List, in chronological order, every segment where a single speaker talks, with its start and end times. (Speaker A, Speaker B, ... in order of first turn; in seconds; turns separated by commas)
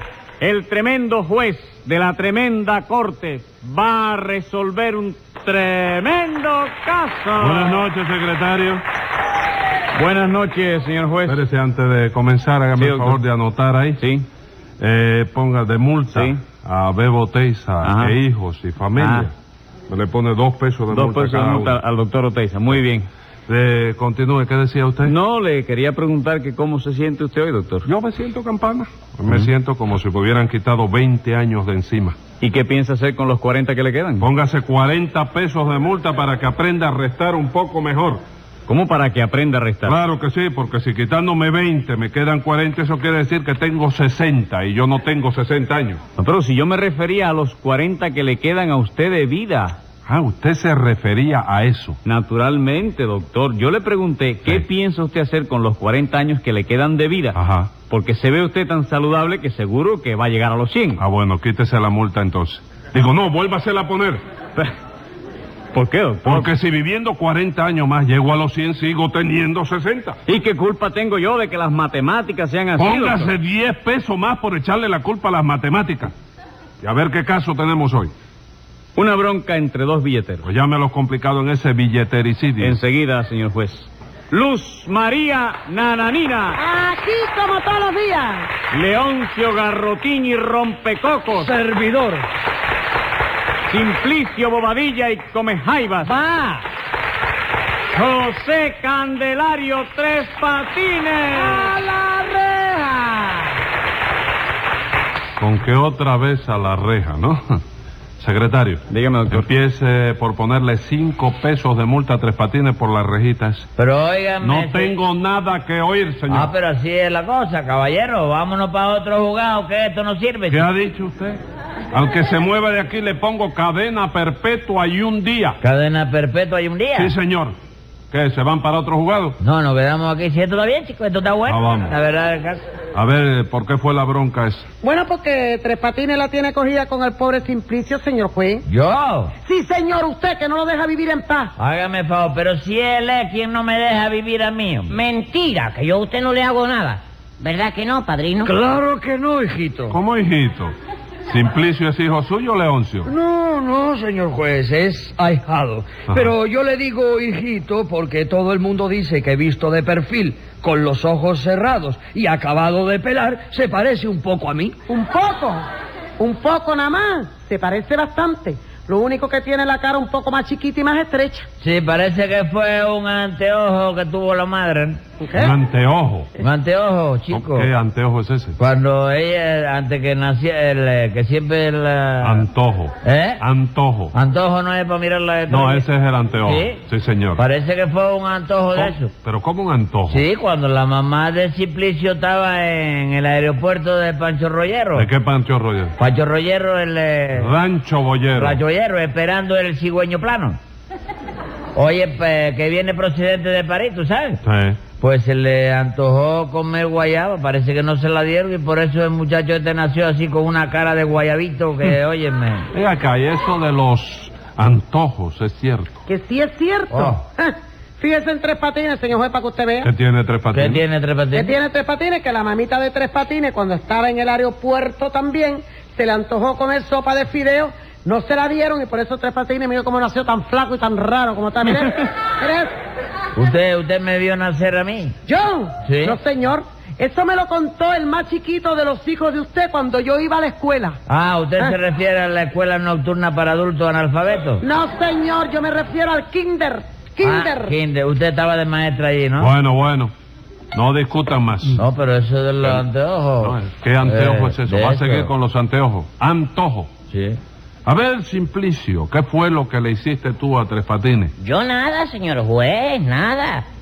Speaker A: 0.4-7.9, Speaker B: 7.3-8.8, Speaker A: 9.9-11.4, Speaker B: 11.2-14.0, Speaker A: 12.8-13.2, Speaker A: 14.0-14.3, Speaker B: 14.8-19.3, Speaker A: 16.1-16.4, Speaker A: 17.8-18.1, Speaker A: 18.9-19.3, Speaker B: 19.9-21.8, Speaker A: 20.9-23.1, Speaker B: 23.5-25.2, Speaker A: 25.0-27.9, Speaker B: 27.9-32.2, Speaker A: 32.4-34.3, Speaker B: 34.2-38.2, Speaker A: 38.7-40.0, Speaker B: 39.8-46.0, Speaker A: 46.2-49.8, Speaker B: 50.0-52.0, Speaker A: 52.0-61.0, Speaker B: 57.3-57.8, Speaker B: 61.0-64.2, Speaker A: 65.7-66.5, Speaker B: 66.2-70.2, Speaker A: 70.3-73.3, Speaker B: 72.7-76.1, Speaker B: 76.8-78.1, Speaker A: 78.9-80.5, Speaker B: 80.4-82.8, Speaker A: 82.6-86.6, Speaker C: 86.5-88.5, Speaker A: 88.7-91.5, Speaker D: 91.4-92.3, Speaker A: 93.7-96.2, Speaker C: 96.0-96.6, Speaker A: 97.9-101.8, Speaker C: 101.4-103.5, Speaker B: 105.4-107.6, Speaker B: 108.2-113.7, Speaker A: 108.9-109.5, Speaker E: 113.8-114.9, Speaker B: 114.4-116.5, Speaker E: 116.3-120.6, Speaker B: 120.5-121.4, Speaker B: 121.9-125.6, Speaker E: 125.6-127.1, Speaker B: 126.9-127.5, Speaker B: 128.1-129.4, Speaker E: 129.4-132.6, Speaker B: 131.5-131.9, Speaker B: 132.9-134.7, Speaker C: 134.8-138.6, Speaker E: 138.7-139.3, Speaker C: 139.4-141.5, Speaker E: 141.6-144.9, Speaker F: 144.9-148.5, Speaker D: 148.4-150.0, Speaker B: 149.9-150.7, Speaker B: 151.3-153.1, Speaker D: 153.1-164.8, Speaker C: 164.9-165.6, Speaker C: 166.2-171.4, Speaker E: 171.6-175.0, Speaker C: 175.2-175.5, Speaker B: 175.3-176.3, Speaker E: 176.4-177.7, Speaker B: 177.3-178.6, Speaker E: 178.6-182.4, Speaker B: 182.2-184.1, Speaker E: 183.0-183.4, Speaker E: 184.1-185.8, Speaker B: 185.5-187.4, Speaker E: 186.4-186.8, Speaker E: 187.3-189.1, Speaker B: 188.8-190.2, Speaker E: 190.1-195.1, Speaker B: 194.9-195.9, Speaker E: 196.0-197.5, Speaker B: 197.3-198.6, Speaker E: 198.3-200.6, Speaker E: 201.7-204.4, Speaker B: 204.4-204.8, Speaker E: 205.0-212.7, Speaker B: 212.7-215.9, Speaker C: 216.1-219.9, Speaker E: 216.9-217.2, Speaker B: 219.8-220.8, Speaker E: 220.5-221.5, Speaker C: 221.3-232.7, Speaker E: 233.3-235.2, Speaker C: 235.3-241.0, Speaker E: 235.8-236.2, Speaker E: 241.1-244.6, Speaker C: 244.6-247.8, Speaker E: 247.2-249.5, Speaker B: 249.4-250.1, Speaker B: 250.7-251.8, Speaker E: 251.8-255.3, Speaker B: 253.4-256.9, Speaker E: 257.1-257.4, Speaker B: 257.9-261.3, Speaker F: 261.4-263.6